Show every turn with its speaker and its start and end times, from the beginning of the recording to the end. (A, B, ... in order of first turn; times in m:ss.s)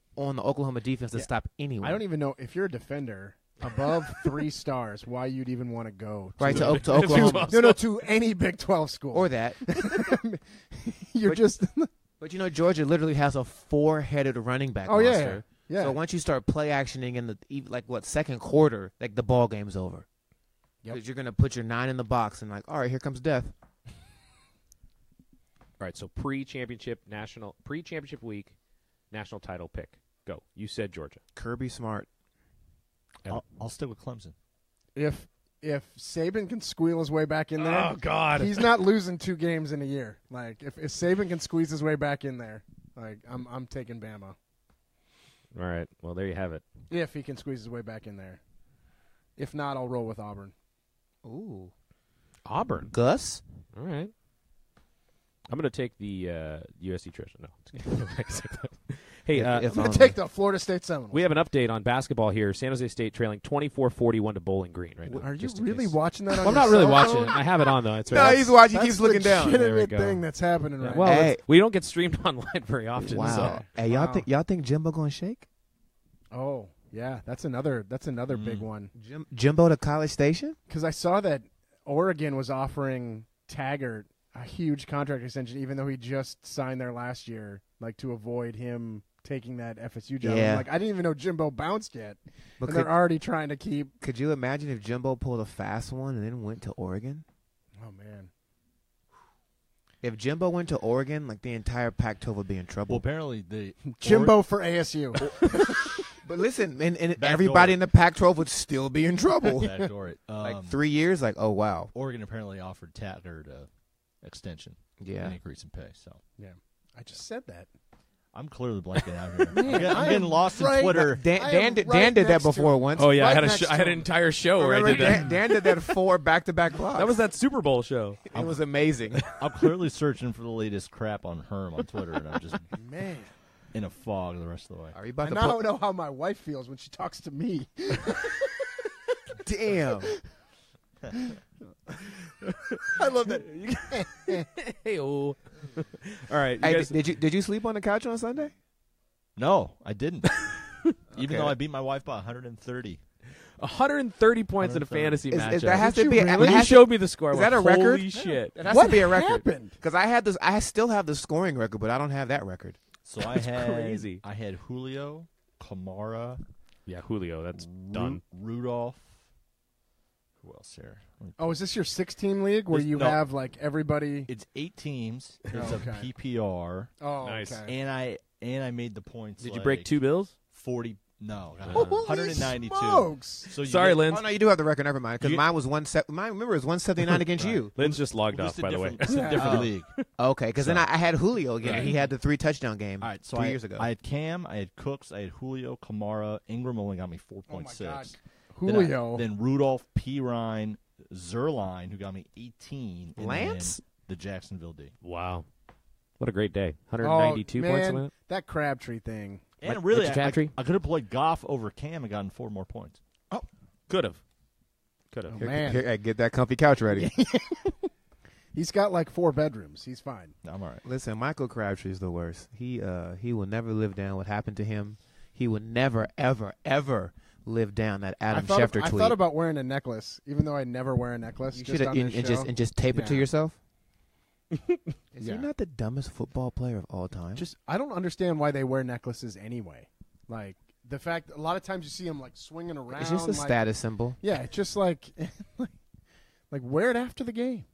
0:00.2-0:02.0 A
0:01.8-0:11.9 B
0:06.4-0:07.6 A
0:06.5-0:07.8 C
0:09.1-0:09.6 A
0:12.2-0:20.1 A
0:14.9-0:16.0 B
0:20.9-0:23.5 A
0:25.8-0:28.6 C
0:29.1-0:31.2 C
0:31.4-0:32.1 A
0:33.3-0:34.3 D
0:35.0-0:44.4 B
0:37.6-0:38.7 C
0:45.5-0:46.6 C
0:46.9-0:48.4 B
0:49.4-0:50.5 B
0:51.2-0:51.7 A
0:52.4-0:52.9 C
0:52.9-0:53.4 A
0:53.7-0:54.1 C
0:55.5-0:59.7 C
0:59.3-1:00.2 A
0:59.7-1:01.3 B
1:01.1-1:08.6 C
1:05.1-1:07.5 B
1:08.1-1:09.6 A
1:08.1-1:11.3 B
1:09.4-1:10.2 C
1:10.8-1:13.6 C
1:11.0-1:11.4 A
1:13.0-1:15.5 A
1:13.2-1:14.3 B
1:16.3-1:18.9 B
1:18.3-1:18.7 D
1:19.0-1:20.6 A
1:20.7-1:33.9 B
1:30.2-1:30.7 A
1:32.6-1:32.9 A
1:34.0-1:37.2 A
1:37.8-1:38.3 B
1:40.0-1:43.0 A
1:42.9-1:44.4 D
1:43.9-1:46.0 B
1:45.2-1:45.8 D
1:46.2-1:49.9 A
1:47.2-1:47.8 D
1:49.4-1:50.8 D
1:50.4-1:51.9 A
1:51.9-1:53.7 D
1:54.2-1:56.2 D
1:55.0-1:55.4 A
1:56.4-1:57.7 B
1:58.3-2:01.2 D
1:59.5-2:04.1 B
2:01.0-2:03.2 A
2:03.0-2:05.6 C
2:04.6-2:07.2 A
2:04.9-2:05.3 B
2:06.9-2:08.2 C
2:08.3-2:09.2 A
2:09.4-2:12.7 D
2:12.7-2:13.3 B
2:13.7-2:15.0 D
2:14.9-2:15.6 A
2:15.2-2:18.7 B
2:19.4-2:20.1 A
2:22.4-2:27.0 C
2:23.0-2:24.4 B
2:26.6-2:28.5 A
2:29.4-2:30.5 D
2:31.1-2:33.0 D
2:31.1-2:31.6 A
2:33.6-2:38.6 C
2:34.6-2:35.2 D
2:35.3-2:42.8 A
2:35.7-2:36.7 B
2:38.7-2:39.8 B
2:43.0-2:46.4 D
2:43.3-2:44.2 C
2:46.9-2:48.2 C
2:47.6-2:49.2 D
2:50.4-2:51.6 D
2:51.4-2:54.3 B
2:52.7-2:53.2 D
2:54.3-2:56.9 D
2:55.5-2:56.1 B
2:57.0-2:57.7 B
2:57.2-2:57.6 C
2:57.6-3:00.0 D
2:59.4-3:00.3 C
3:00.5-3:04.0 D
3:01.7-3:02.1 C
3:01.7-3:03.5 B
3:03.5-3:04.2 C
3:04.1-3:07.7 A
3:05.2-3:05.5 D
3:07.3-3:09.9 D
3:07.8-3:10.0 C
3:09.0-3:09.6 B
3:09.4-3:13.9 A
3:10.6-3:10.9 D
3:11.6-3:12.0 D
3:13.0-3:25.0 D
3:17.5-3:19.3 B
3:23.2-3:23.8 A
3:25.0-3:25.5 C
3:26.2-3:28.1 C
3:27.0-3:29.4 B
3:29.6-3:33.0 D
3:29.6-3:30.5 C
3:33.9-3:34.2 C
3:35.1-3:35.4 C
3:35.3-3:35.8 B
3:35.4-3:37.1 A
3:36.9-3:37.9 B
3:38.5-3:40.3 B
3:40.4-3:40.8 D
3:40.8-3:49.2 A
3:48.3-3:53.3 B
3:51.5-3:53.6 A
3:54.5-3:54.8 C
3:55.1-3:57.5 A
3:55.2-3:55.5 B
3:57.4-4:03.6 B
4:02.9-4:04.2 A
4:04.2-4:05.8 B
4:06.5-4:07.6 B